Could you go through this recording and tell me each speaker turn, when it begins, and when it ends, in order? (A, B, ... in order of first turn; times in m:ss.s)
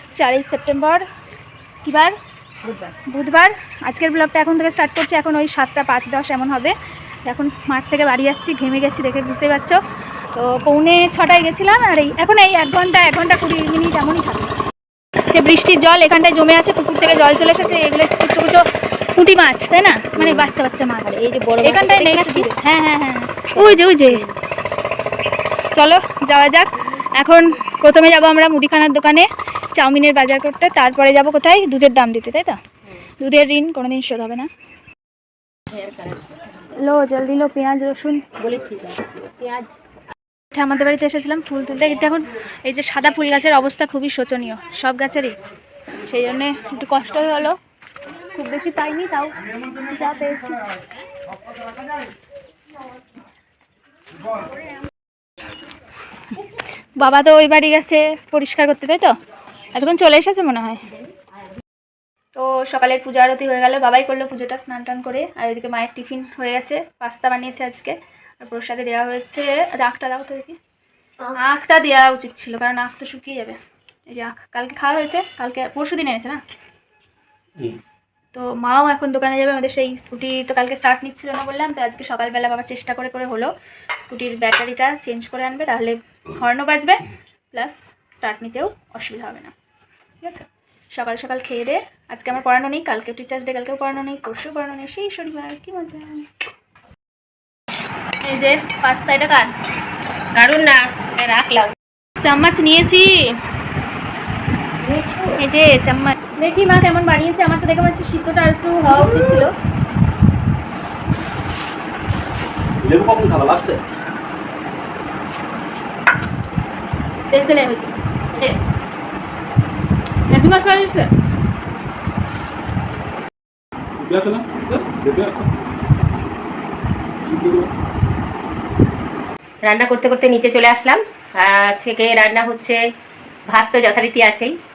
0:00.2-0:01.0 A
0:01.8-0:02.1 A
0:03.1-0:06.7 A
0:07.2-0:09.8 A
0:10.3-0:14.6 A
0:15.3-0:24.2 A
0:17.0-0:17.9 B
0:20.1-0:20.5 B
0:21.0-0:22.6 B
0:23.5-0:24.3 B
0:25.7-0:32.6 A
0:33.2-0:34.5 A
0:35.7-0:36.2 B
0:36.8-0:38.2 A
0:38.4-0:39.7 B
0:40.5-0:45.3 A
0:46.0-0:47.6 A
0:48.3-0:50.6 A
0:57.0-0:59.1 A
0:59.7-1:00.8 A
1:02.3-1:10.6 A
1:11.3-1:16.4 A
1:18.3-1:27.0 A
1:27.5-1:29.5 A
1:30.2-1:36.3 A
1:38.2-1:39.5 A
1:40.3-1:41.8 B
1:42.2-1:43.3 A
1:44.8-1:45.4 B
1:45.4-1:49.5 A
1:48.9-1:49.4 B
1:52.8-1:53.8 C
1:57.3-1:57.9 A
2:00.3-2:01.1 A
2:04.0-2:04.5 C
2:05.0-2:05.5 C
2:07.2-2:07.7 C
2:09.7-2:12.8 B
2:13.5-2:14.5 B